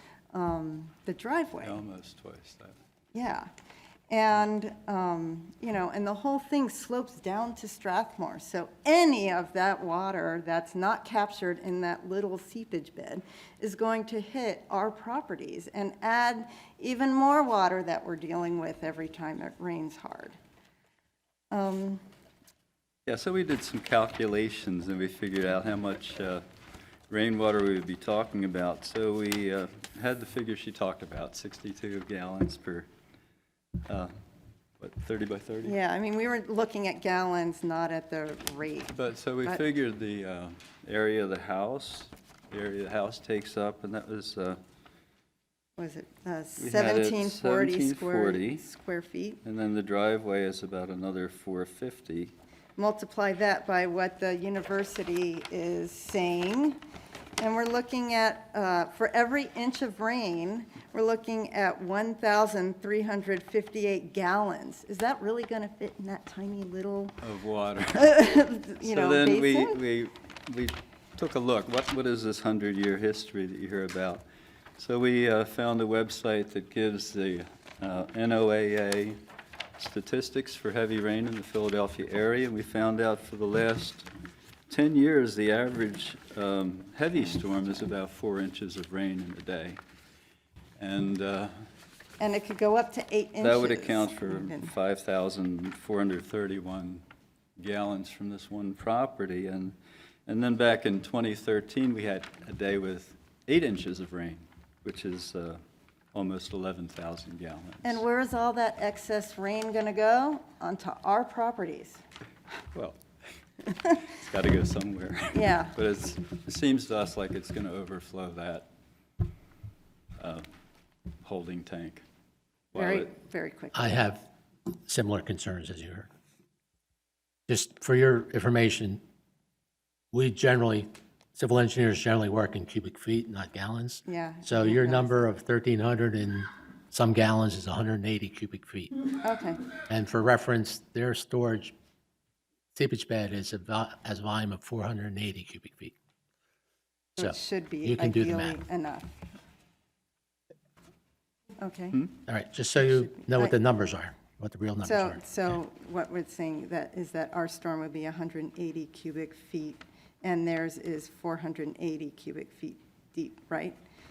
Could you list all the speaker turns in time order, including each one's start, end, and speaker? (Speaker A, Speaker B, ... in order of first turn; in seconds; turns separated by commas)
Speaker A: 0.3-1.8, Speaker B: 1.6-2.8, Speaker A: 3.1-3.5, Speaker A: 4.1-20.4, Speaker A: 21.5-22.0, Speaker B: 23.1-26.4, Speaker B: 27.1-32.9, Speaker B: 34.8-35.8, Speaker A: 35.6-39.6, Speaker B: 38.9-44.6, Speaker A: 45.8-49.4, Speaker B: 46.6-48.6, Speaker B: 49.4-52.3, Speaker A: 52.8-56.8, Speaker A: 57.4-67.2, Speaker B: 67.2-68.2, Speaker A: 67.9-69.8, Speaker B: 68.8-74.2, Speaker B: 74.8-79.2, Speaker B: 79.8-84.1, Speaker B: 84.7-89.8, Speaker B: 90.8-91.5, Speaker A: 92.2-94.7, Speaker B: 93.4-97.0, Speaker B: 97.6-99.8, Speaker B: 100.3-105.6, Speaker B: 106.1-108.0, Speaker A: 107.8-112.0, Speaker B: 112.7-113.0, Speaker B: 114.0-118.7, Speaker A: 115.3-115.7, Speaker B: 120.2-120.4, Speaker B: 121.2-122.0, Speaker B: 122.7-123.1, Speaker A: 122.7-124.0, Speaker C: 123.7-126.1, Speaker C: 127.5-129.0, Speaker C: 130.1-139.0, Speaker A: 134.1-135.3, Speaker A: 139.2-139.6, Speaker C: 139.9-141.7, Speaker C: 142.7-145.9, Speaker A: 147.2-149.1, Speaker C: 147.2-148.6, Speaker A: 151.6-152.1, Speaker C: 152.3-155.5, Speaker A: 153.0-153.5, Speaker A: 154.8-163.8